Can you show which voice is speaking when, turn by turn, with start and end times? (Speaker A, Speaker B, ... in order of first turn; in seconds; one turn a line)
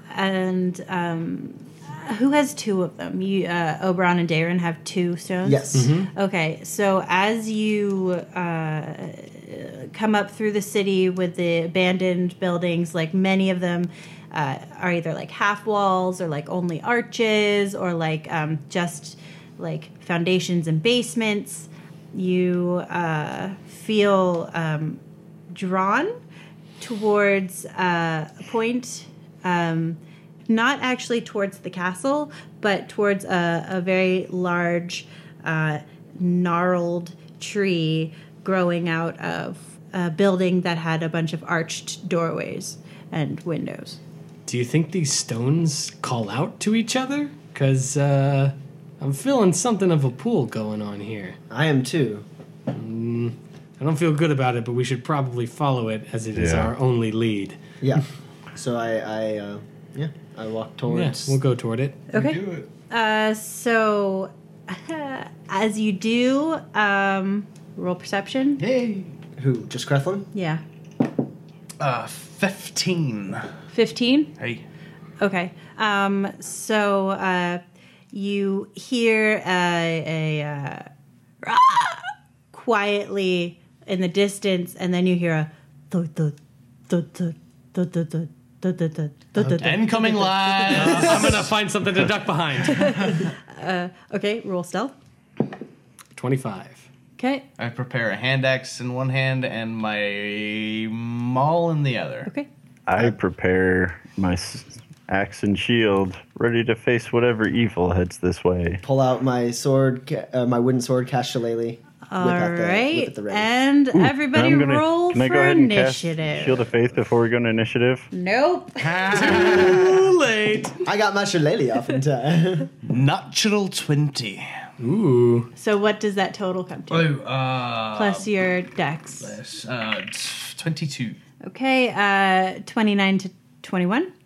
Speaker A: 0.1-26.2
Speaker B: 5.4-6.0
Speaker C: 5.7-6.1
Speaker A: 26.8-44.0
Speaker C: 44.5-51.4
Speaker B: 51.5-52.2
Speaker C: 52.7-57.6
Speaker D: 56.4-56.7
Speaker B: 57.8-61.4
Speaker C: 60.9-62.1
Speaker A: 62.1-68.6
Speaker E: 62.1-62.7
Speaker E: 68.6-69.1
Speaker B: 69.4-70.3
Speaker A: 70.3-70.6
Speaker E: 71.8-73.5
Speaker A: 73.7-74.3
Speaker E: 74.4-74.6
Speaker A: 75.2-80.9
Speaker A: 81.4-86.4
Speaker A: 86.9-91.4
Speaker E: 89.5-91.5
Speaker C: 90.7-93.2
Speaker A: 92.6-94.9
Speaker C: 96.2-96.9
Speaker A: 97.2-97.5
Speaker E: 97.6-102.3
Speaker D: 102.9-108.8
Speaker B: 108.8-113.5
Speaker A: 112.1-116.7
Speaker D: 113.9-118.1
Speaker A: 118.1-119.6
Speaker E: 118.8-120.1
Speaker C: 119.2-120.8
Speaker B: 120.8-122.7
Speaker E: 122.9-124.6
Speaker C: 124.8-125.5
Speaker A: 125.6-127.1
Speaker E: 126.9-128.3
Speaker A: 127.9-129.4
Speaker E: 129.2-131.2
Speaker A: 131.4-134.1